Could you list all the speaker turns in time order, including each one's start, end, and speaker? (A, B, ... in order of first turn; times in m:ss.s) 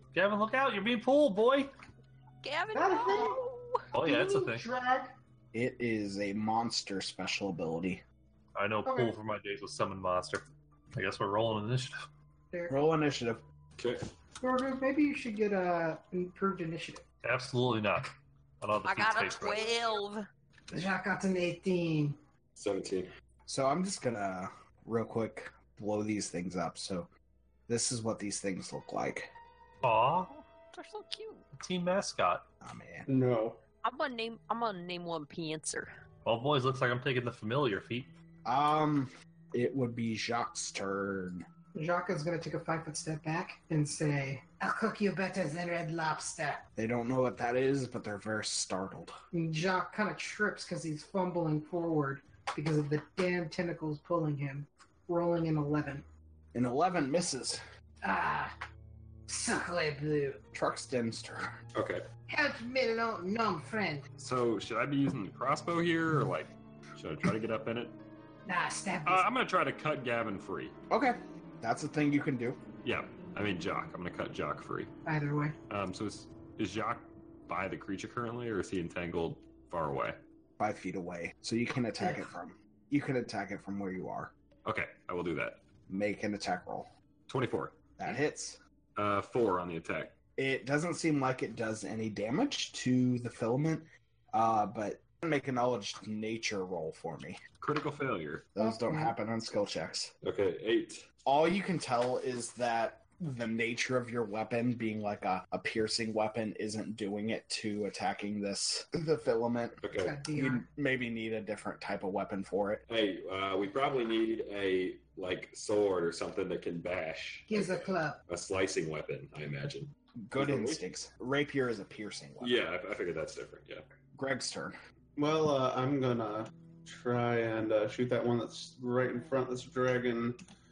0:00.1-0:01.7 A
0:02.4-0:03.8 B
0:02.7-0:03.4 C
0:03.9-0:04.6 A
0:04.0-0:05.2 C
0:05.5-0:08.0 D
0:08.6-0:10.4 A
0:08.8-0:09.1 C
0:10.9-0:12.0 A
0:12.5-0:12.8 C
0:12.7-0:13.4 D
0:13.8-0:14.0 E
0:14.4-0:17.0 C
0:17.2-0:19.6 A
0:18.8-0:20.2 B
0:20.7-0:22.2 C
0:22.6-0:23.1 E
0:23.5-0:27.1 D
0:27.7-0:29.3 D
0:29.8-0:30.3 A
0:30.3-0:31.4 B
0:31.5-0:32.4 A
0:32.6-0:33.1 D
0:33.1-0:33.6 F
0:33.8-0:35.9 B
0:36.2-0:38.1 A
0:38.4-0:41.4 D
0:41.7-0:46.6 C
0:46.8-0:49.2 D
0:49.3-0:56.0 C
0:56.5-0:57.6 D
0:58.0-0:58.5 C
0:59.3-1:00.4 C
1:00.5-1:01.5 D
1:01.7-1:02.0 E
1:02.3-1:04.0 C
1:04.2-1:08.0 E
1:08.4-1:09.3 C
1:09.0-1:10.7 E
1:10.9-1:12.6 D
1:12.8-1:14.9 E
1:15.0-1:15.6 C
1:15.7-1:20.2 E
1:20.6-1:24.3 D
1:22.0-1:22.2 C
1:24.6-1:25.6 E
1:25.9-1:26.9 D
1:27.3-1:27.8 E
1:28.0-1:28.6 D
1:29.0-1:30.2 E
1:30.4-1:37.4 D
1:37.6-1:38.5 E
1:38.6-1:40.1 D
1:38.6-1:39.1 C
1:40.2-1:41.0 E
1:41.2-1:52.8 D
1:49.8-1:50.2 E
1:49.9-1:50.6 C
1:52.9-2:00.8 E
1:57.5-1:58.2 C
2:00.2-2:02.6 D
2:02.4-2:03.8 E
2:04.2-2:04.8 D
2:05.2-2:10.4 F